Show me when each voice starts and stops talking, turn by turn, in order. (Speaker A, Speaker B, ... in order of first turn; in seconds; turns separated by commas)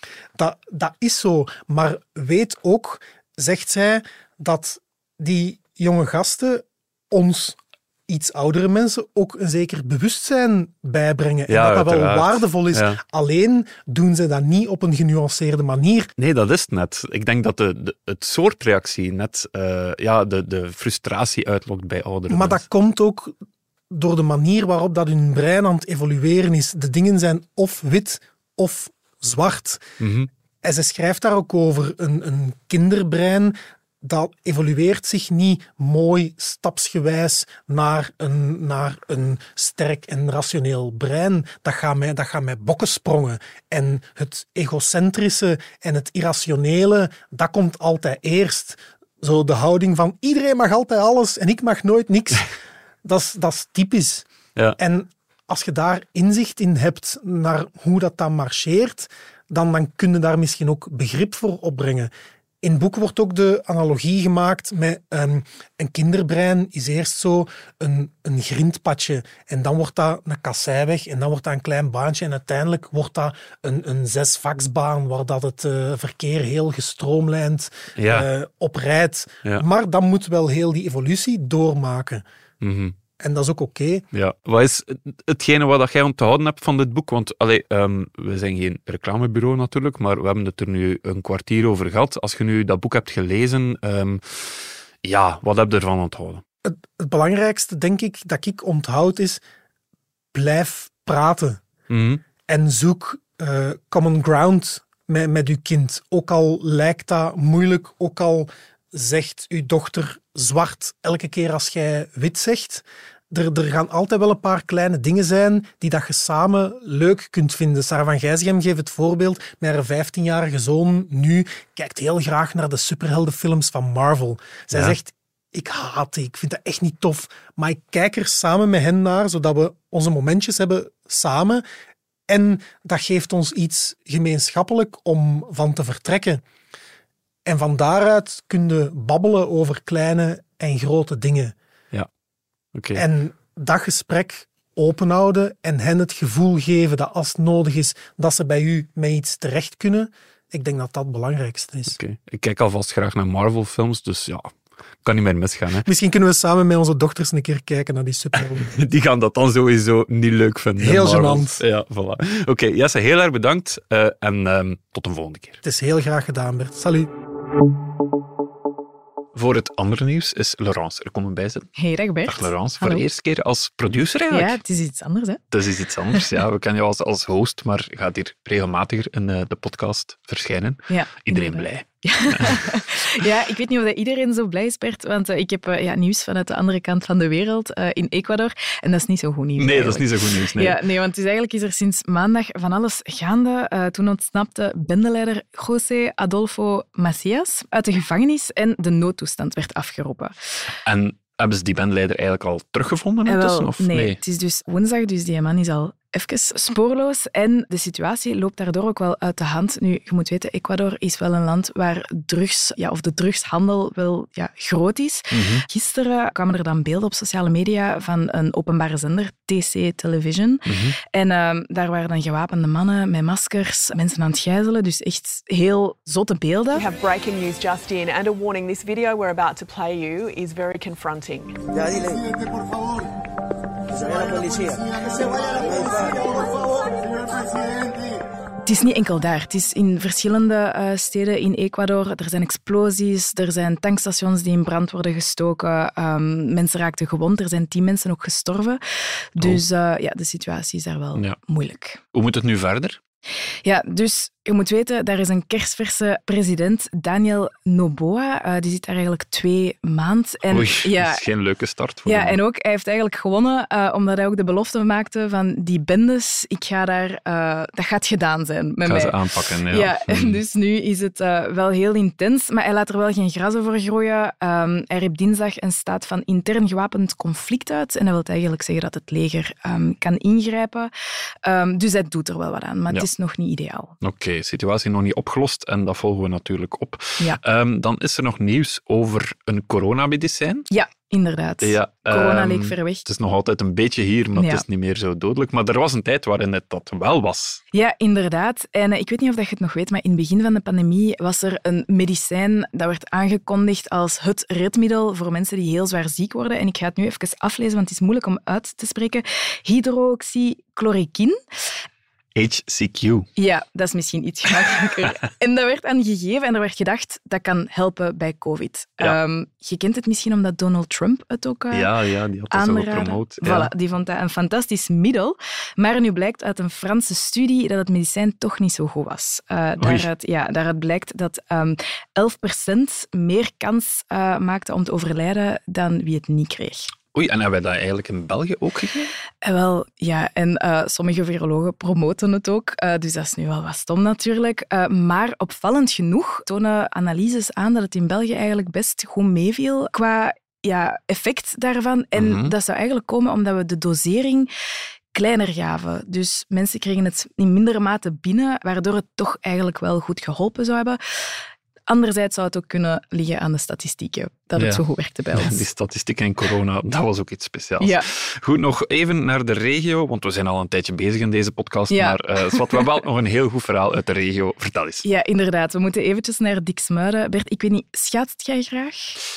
Speaker A: 0.3-16.1, Speaker B: 11.5-13.0, Speaker B: 16.2-22.6, Speaker A: 22.3-23.3, Speaker A: 23.9-29.8, Speaker B: 30.0-30.3, Speaker A: 30.6-52.5, Speaker A: 53.0-62.1, Speaker A: 62.6-82.2, Speaker B: 78.0-78.3, Speaker B: 82.6-82.9, Speaker A: 83.2-84.0, Speaker B: 84.1-96.4, Speaker A: 96.6-99.4, Speaker A: 100.3-101.6, Speaker B: 101.9-102.2, Speaker A: 102.5-131.6, Speaker A: 132.3-136.4, Speaker A: 137.4-141.5, Speaker B: 142.7-143.0, Speaker A: 142.9-152.0, Speaker B: 151.9-154.5, Speaker B: 155.0-155.8, Speaker A: 155.8-158.7, Speaker B: 158.6-165.6, Speaker A: 160.8-161.6, Speaker A: 165.6-167.1, Speaker B: 169.3-171.7, Speaker C: 171.8-173.0, Speaker B: 172.2-174.6, Speaker C: 174.3-175.4, Speaker B: 175.5-183.2, Speaker C: 180.9-200.3, Speaker B: 189.6-190.8, Speaker B: 200.8-204.2, Speaker C: 203.2-226.8, Speaker B: 215.3-215.6, Speaker B: 220.7-220.9, Speaker D: 226.7-231.6, Speaker E: 231.7-232.3, Speaker E: 233.9-236.9, Speaker C: 238.6-248.8, Speaker C: 249.3-252.0, Speaker B: 252.1-253.0, Speaker C: 253.6-261.2, Speaker B: 260.5-262.4, Speaker C: 262.1-280.9, Speaker B: 268.8-270.4, Speaker C: 281.4-283.9, Speaker B: 284.0-290.7, Speaker C: 290.7-293.0, Speaker B: 291.6-297.6, Speaker C: 294.3-294.6, Speaker C: 297.7-311.4, Speaker B: 312.3-313.3, Speaker C: 313.4-321.9, Speaker B: 321.7-323.7, Speaker C: 322.5-336.9, Speaker B: 329.8-330.1, Speaker B: 337.1-339.1, Speaker C: 339.4-354.5, Speaker B: 352.1-352.5, Speaker C: 355.1-361.0, Speaker C: 361.9-365.6, Speaker B: 364.6-375.1, Speaker C: 367.8-368.1, Speaker C: 371.9-372.9, Speaker C: 375.0-379.2